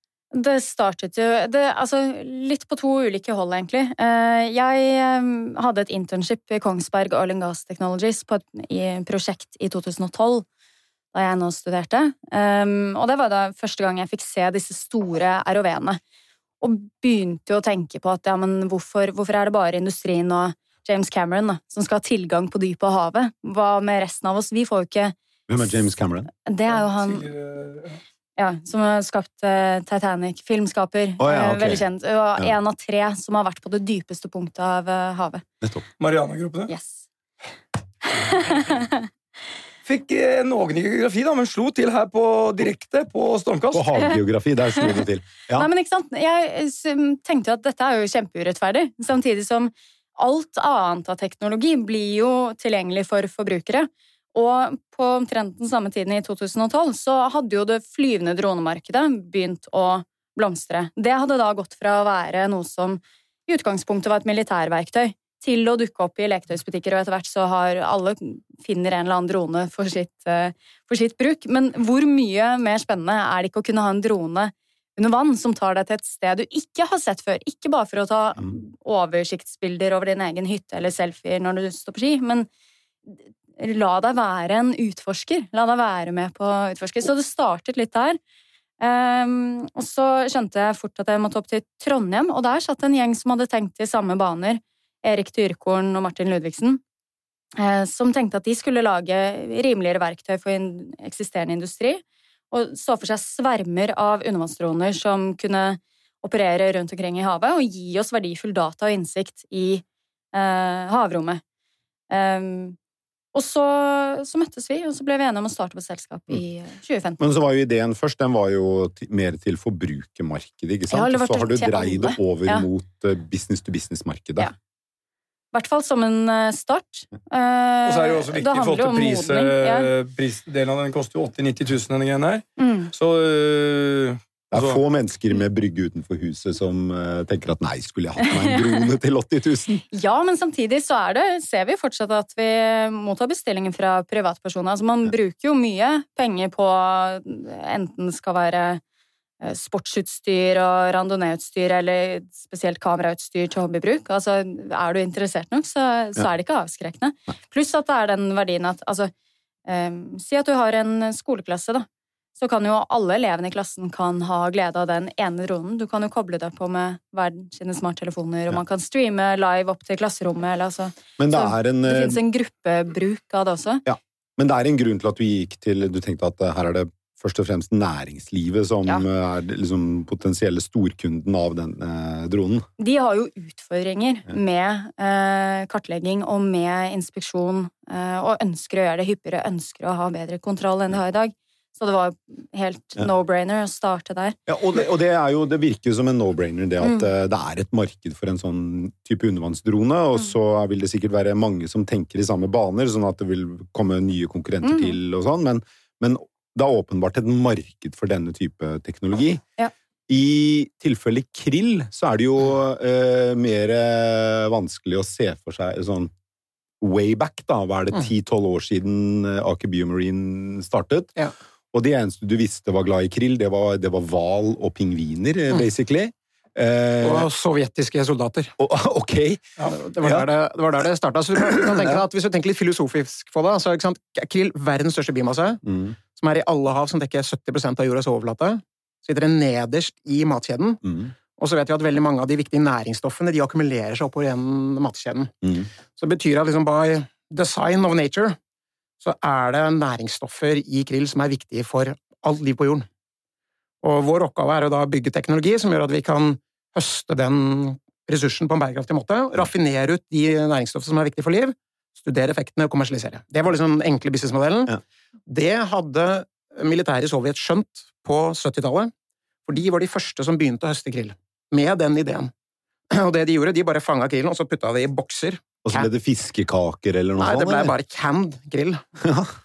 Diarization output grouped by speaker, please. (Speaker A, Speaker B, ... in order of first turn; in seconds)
Speaker A: 0.3-10.5, 11.1-16.0, 16.6-25.7, 26.4-27.3, 28.4-35.4, 36.7-37.0, 38.1-39.1, 45.5-82.5, 83.1-88.2, 88.8-96.8, 97.6-111.4, 112.1-112.8, 113.3-117.2, 120.9-122.7, 125.5-129.9, 132.6-132.9, 138.3-138.6, 139.9-148.8, 149.4-159.1, 159.7-173.8, 182.8-194.4, 204.6-205.0
Speaker B: 25.5-26.3, 31.2-31.8, 43.7-45.7, 117.2-124.5, 134.5-139.8, 171.2-172.2, 173.8-182.7, 194.5-209.4, 210.1-216.1, 216.8-221.1, 221.7-227.3, 228.6-230.3, 231.5-232.0, 235.7-236.0, 240.8-241.1, 245.4-245.7, 275.6-277.7, 279.0-279.3
Speaker C: 26.7-28.0, 36.0-36.7, 39.9-43.9, 127.9-134.8
Speaker D: 227.0-228.6, 229.6-235.6, 236.2-240.8, 241.4-248.4, 249.0-252.9, 253.8-268.9, 269.5-272.3, 272.9-275.9, 277.2-278.8